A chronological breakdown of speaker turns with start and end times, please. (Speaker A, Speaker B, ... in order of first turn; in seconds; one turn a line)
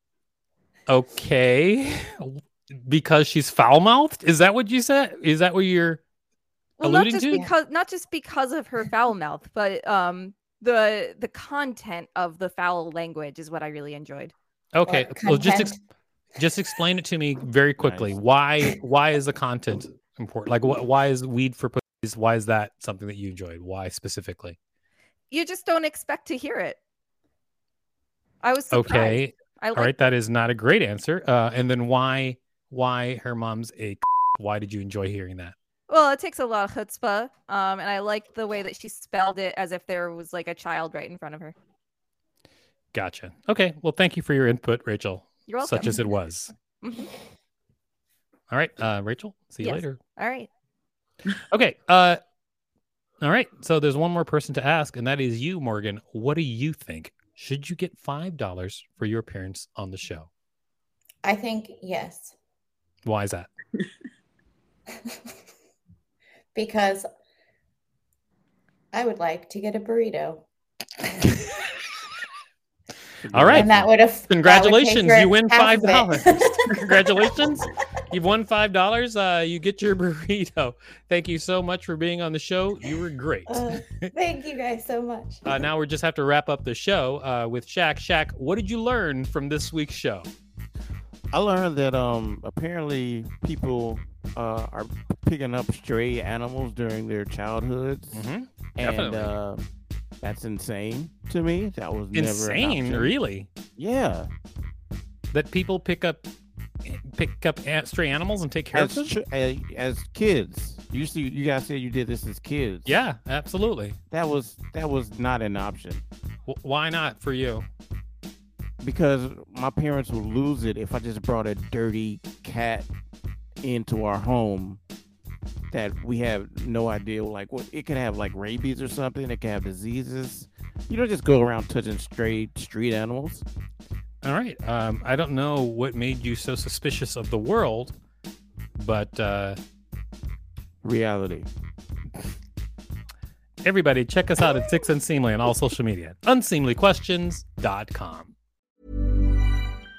Speaker A: 0.9-6.0
Speaker B: 6.8-14.3
Speaker A: 6.8-7.5
Speaker A: 14.7-15.8
Speaker C: 14.8-15.8
Speaker A: 16.4-24.6
Speaker D: 17.8-18.2
Speaker B: 25.3-26.8
Speaker B: 28.4-29.9
Speaker A: 28.7-35.5
Speaker B: 35.9-41.5
Speaker A: 42.9-46.5
Speaker B: 45.5-46.1
Speaker B: 46.8-47.1
Speaker A: 48.5-50.0
Speaker B: 49.6-50.5
Speaker A: 51.5-52.2
Speaker A: 53.2-60.3
Speaker C: 61.2-62.3
Speaker A: 63.0-63.5
Speaker C: 66.5-67.1
Speaker C: 68.9-70.5
Speaker D: 73.2-73.9
Speaker A: 73.3-84.1
Speaker C: 73.5-77.1
Speaker C: 83.5-85.4
Speaker A: 85.4-90.3
Speaker D: 91.3-98.2
Speaker A: 98.1-99.3
Speaker D: 98.8-99.6
Speaker D: 100.2-103.1
Speaker A: 102.1-103.5
Speaker D: 103.8-104.3
Speaker A: 105.3-106.3
Speaker A: 106.8-109.1
Speaker D: 108.7-113.0
Speaker A: 112.8-114.0
Speaker D: 114.1-116.0
Speaker A: 116.5-117.7
Speaker D: 118.8-122.9
Speaker D: 123.6-124.8
Speaker D: 125.7-133.4
Speaker A: 134.2-137.9
Speaker A: 138.8-139.6
Speaker D: 140.8-141.5
Speaker A: 143.6-148.3